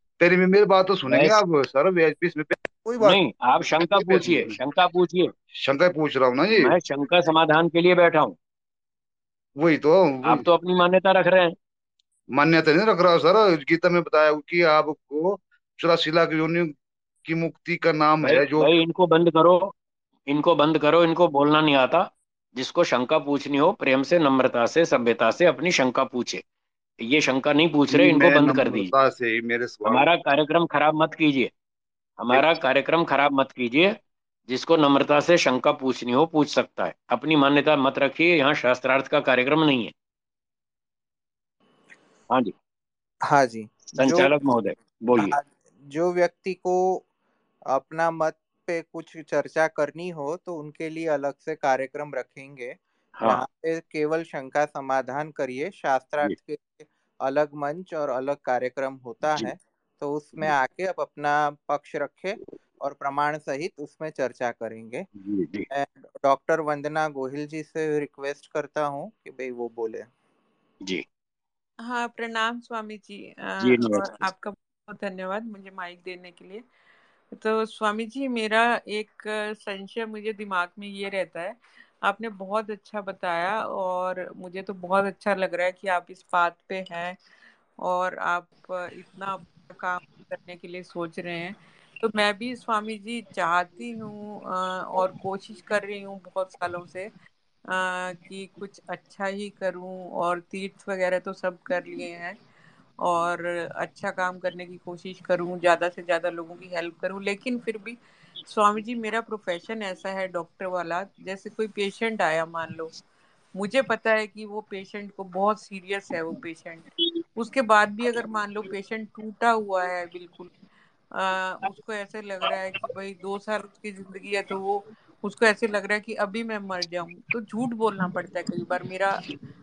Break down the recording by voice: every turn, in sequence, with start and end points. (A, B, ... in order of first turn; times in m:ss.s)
0:00.2-0:03.2 A
0:01.1-0:01.4 B
0:03.0-0:05.3 B
0:03.7-0:04.5 A
0:05.6-0:06.7 A
0:06.6-0:08.4 B
0:09.6-0:10.4 A
0:10.2-0:11.6 B
0:12.3-0:16.7 A
0:17.3-0:18.7 A
0:18.2-0:19.7 B
0:20.3-0:26.4 B
0:27.0-0:28.9 B
0:27.9-0:30.1 A
0:29.8-0:31.5 B
0:32.2-0:34.0 B
0:32.3-0:32.6 A
0:34.5-0:39.9 B
0:43.3-0:44.3 C
0:43.9-0:45.3 B
0:45.2-0:47.0 C
0:47.7-1:05.1 C
0:53.2-0:53.4 B
1:05.2-1:05.7 B
1:05.7-1:10.1 C
1:11.8-1:16.6 D
1:13.6-1:14.3 B
1:17.3-1:27.2 D
1:27.8-1:37.1 D
1:37.7-1:42.4 D
1:43.0-1:53.0 D
1:53.5-2:00.5 D
2:01.1-2:09.2 D